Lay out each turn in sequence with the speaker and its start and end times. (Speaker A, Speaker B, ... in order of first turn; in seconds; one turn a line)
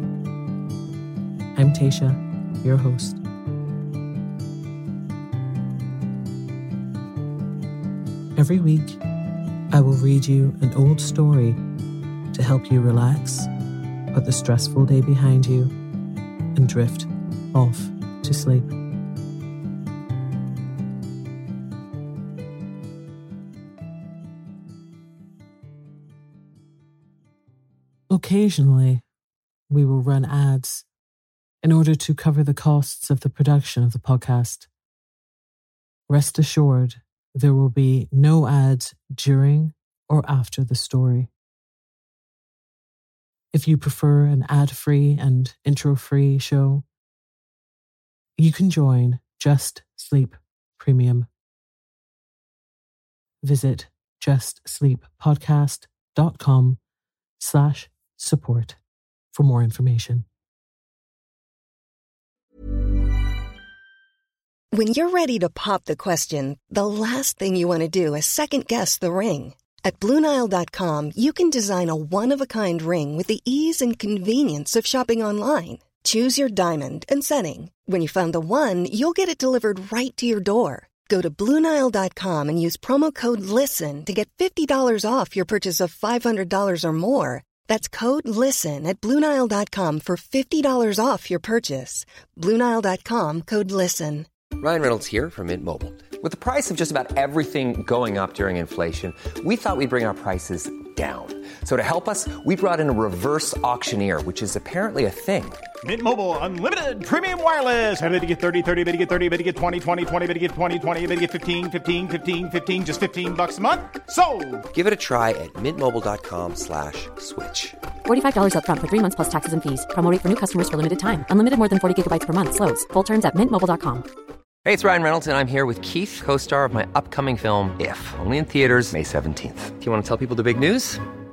Speaker A: 1.5-3.2
Speaker A: 8.3-9.0
Speaker A: 9.7-11.6
Speaker A: 12.3-13.5
Speaker A: 14.1-15.7
Speaker A: 16.5-18.7
Speaker A: 28.1-29.0
Speaker A: 29.7-30.9
Speaker A: 31.6-34.7
Speaker A: 36.1-41.3
Speaker A: 43.5-46.8
Speaker A: 48.4-51.3
Speaker A: 53.4-56.8
Speaker A: 57.4-58.8
Speaker A: 59.3-60.3
Speaker B: 64.7-94.3
Speaker C: 94.6-105.7
Speaker D: 105.8-114.7
Speaker C: 114.7-117.8
Speaker E: 118.0-124.0
Speaker C: 124.6-131.0